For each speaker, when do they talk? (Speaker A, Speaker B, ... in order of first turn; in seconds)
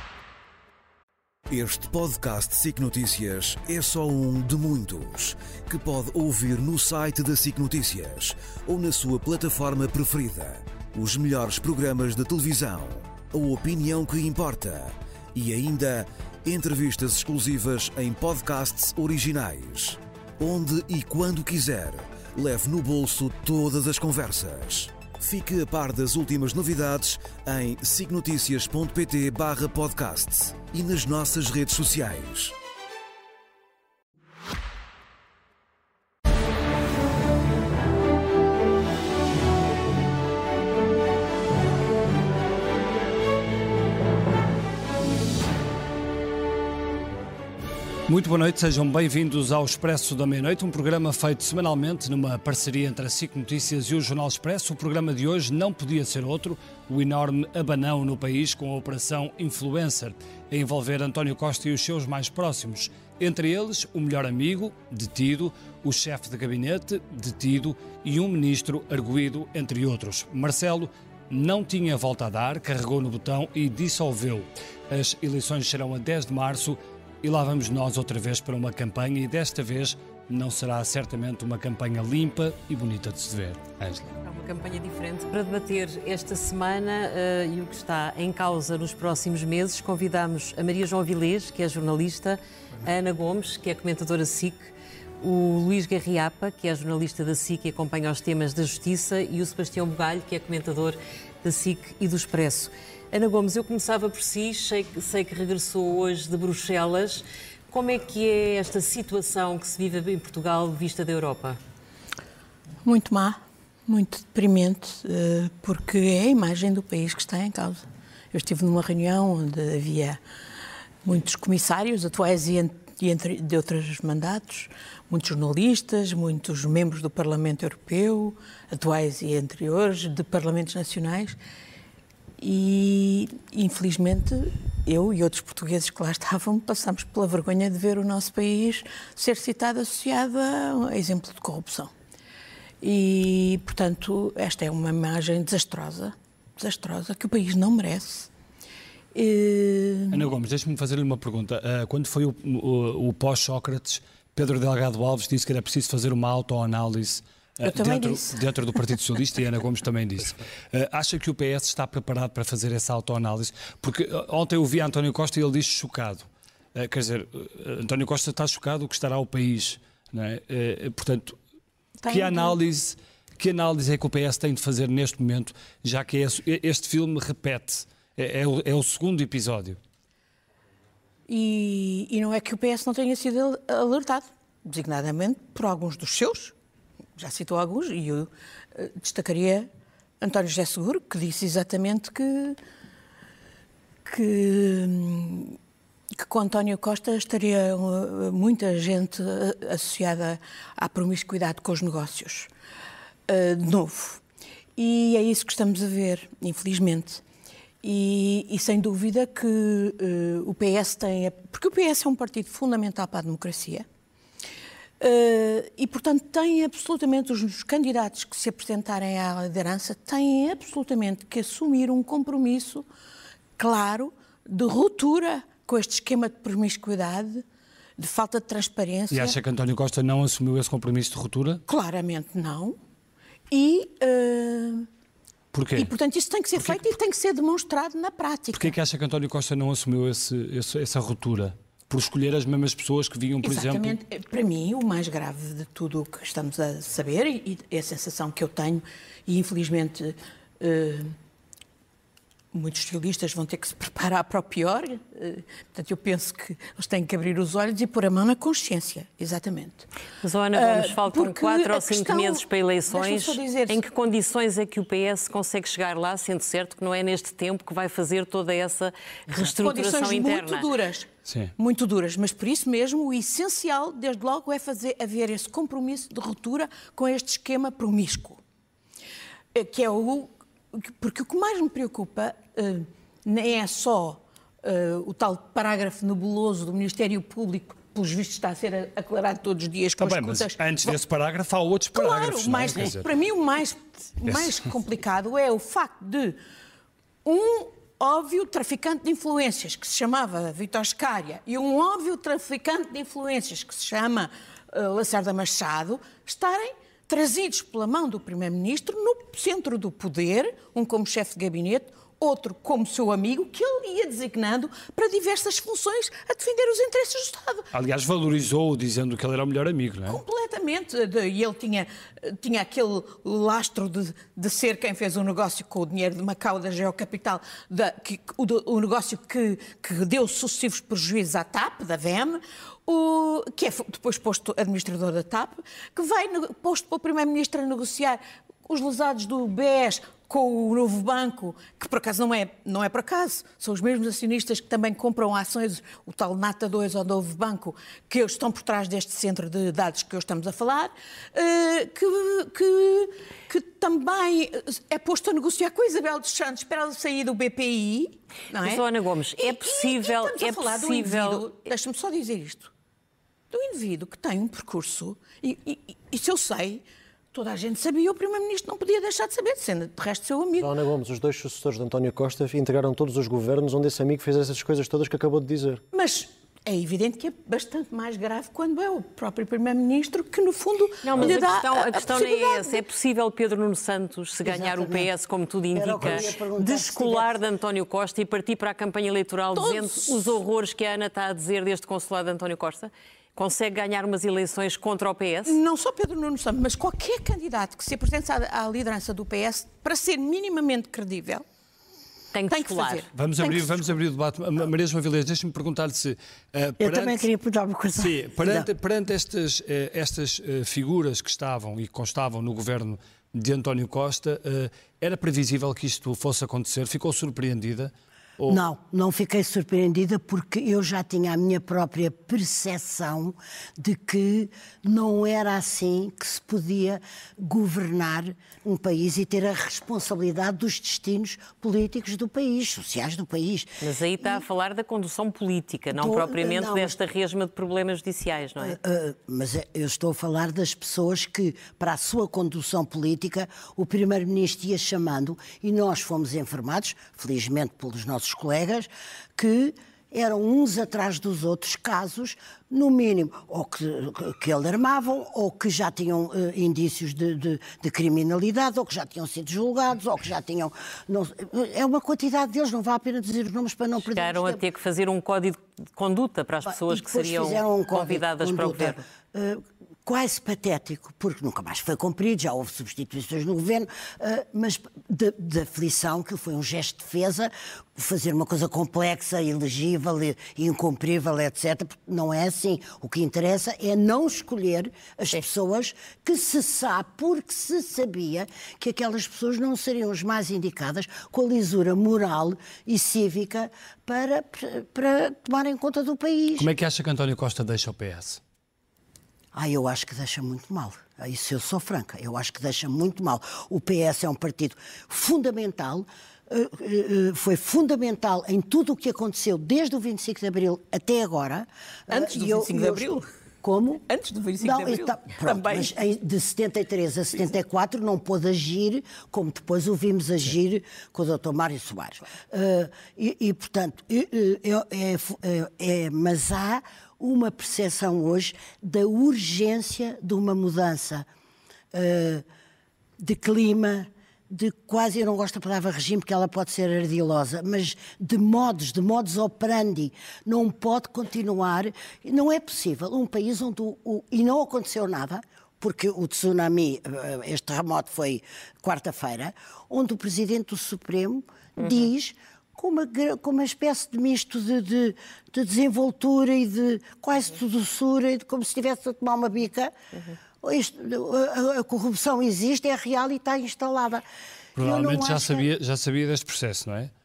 Speaker A: 1.5-32.5
Speaker B: 48.1-84.2, 150.1-171.4, 172.1-179.8, 229.1-231.6, 235.5-235.9, 236.6-236.9, 238.5-244.0, 271.3-271.5, 290.0-293.1, 294.2-294.6, 317.7-320.2, 403.1-407.3, 408.0-418.6, 496.6-498.4, 564.8-567.1
Speaker C: 84.2-111.6, 260.2-270.7, 358.6-361.5, 381.0-395.6, 402.3-403.1, 433.8-438.8, 464.1-469.0, 551.8-552.1
Speaker D: 112.8-120.2, 121.0-131.4, 132.4-141.9, 142.8-148.3, 149.1-150.3, 157.6-158.4, 172.0-172.6, 181.3-186.5, 187.2-189.7, 190.2-192.6, 194.1-195.6, 196.1-202.5, 203.3-204.2, 204.8-207.2, 207.8-213.9, 215.0-222.9, 223.6-227.4, 228.0-229.4, 231.7-232.8, 233.5-234.9, 235.8-238.8, 243.4-251.1, 252.5-259.9, 260.5-263.9, 269.3-278.4, 279.5-291.0, 291.9-296.4, 297.2-317.7, 320.1-362.7, 363.5-370.8, 375.9-382.8, 389.5-390.4, 395.4-401.4, 402.5-403.9, 512.1-513.3, 514.1-515.9
Speaker E: 370.6-375.8
Speaker F: 384.4-385.1, 385.7-387.3, 406.8-408.7, 418.5-434.4, 435.9-437.0, 438.6-464.6, 466.7-496.7, 499.5-513.1, 513.6-514.0, 514.6-531.3, 531.9-532.4, 533.2-559.9, 560.6-564.2, 564.8-565.6